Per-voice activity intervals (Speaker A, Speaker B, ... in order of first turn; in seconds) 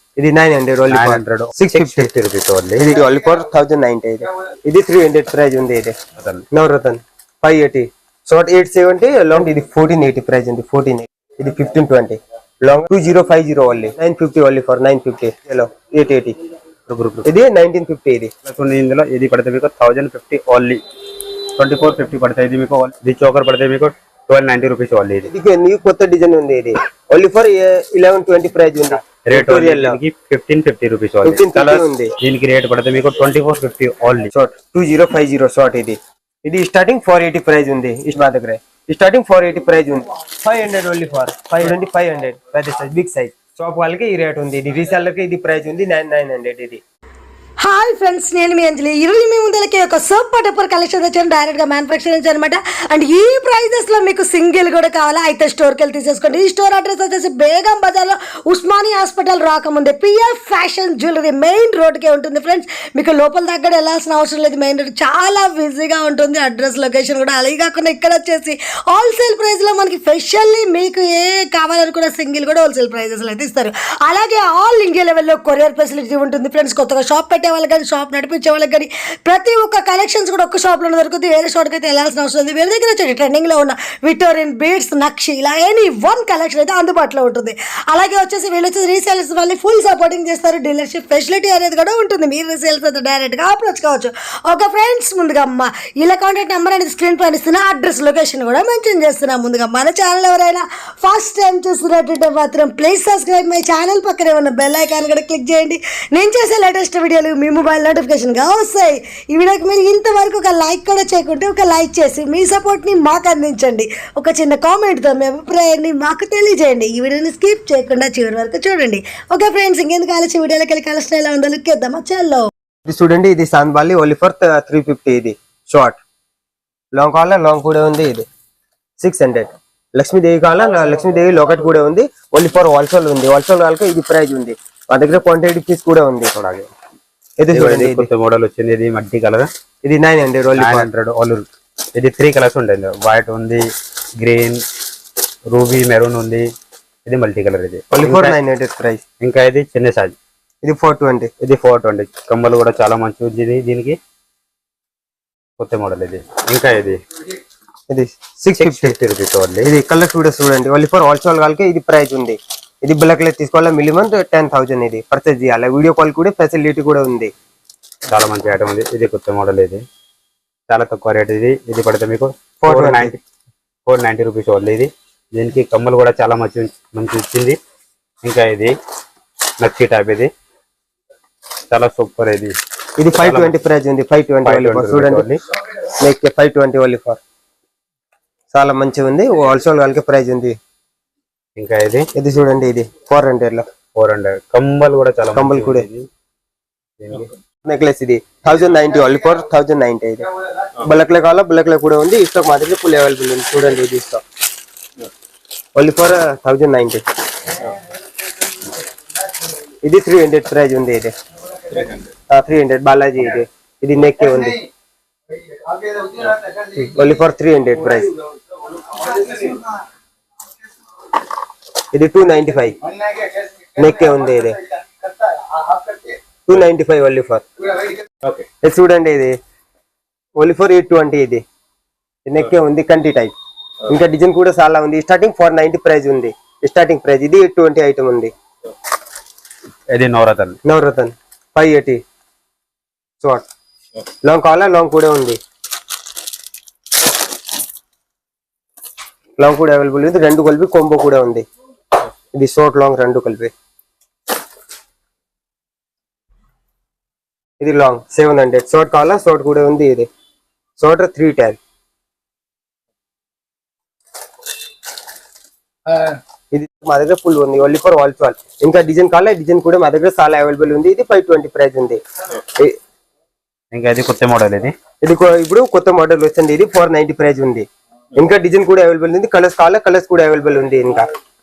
Speaker A: 0.1-2.1, 2.8-6.0, 6.5-16.4, 17.2-18.3, 25.3-30.0, 31.2-32.1, 34.3-46.8, 122.8-126.0, 126.9-128.2, 129.0-136.3, 137.4-138.1, 139.8-140.9, 147.9-149.0, 150.6-151.3, 157.9-158.9, 159.6-167.3, 172.6-173.2, 183.0-185.3, 186.0-187.2, 188.5-190.6, 192.1-193.6, 195.3-195.8, 197.6-204.2, 205.7-207.0, 209.8-211.1, 212.3-214.6, 216.5-218.1, 221.9-222.8, 223.8-224.6, 226.4-227.5, 228.6-229.3, 230.4-231.4, 232.2-233.3, 233.9-238.3, 240.6-242.0, 243.2-243.5, 244.2-245.4, 249.4-251.4, 252.3-253.5, 257.6-260.1, 260.8-261.6, 266.5-272.0, 275.0-281.1
Speaker B: 0.9-3.0, 6.2-6.5, 16.9-17.3, 18.4-20.8, 21.6-25.3, 29.2-34.3, 136.3-136.7, 137.5-139.5, 140.6-143.7, 144.2-144.6, 145.5-146.4, 147.1-148.3, 149.2-150.2, 151.4-153.9, 155.6-157.0, 158.6-159.7, 168.1-169.8, 170.7-173.2, 173.8-177.6, 178.2-178.7, 179.6-180.3, 181.7-182.5, 183.2-183.6, 184.4-185.4, 191.6-192.1, 193.9-196.1, 197.0-197.3, 239.9-240.6, 273.7-274.7
Speaker C: 47.6-122.5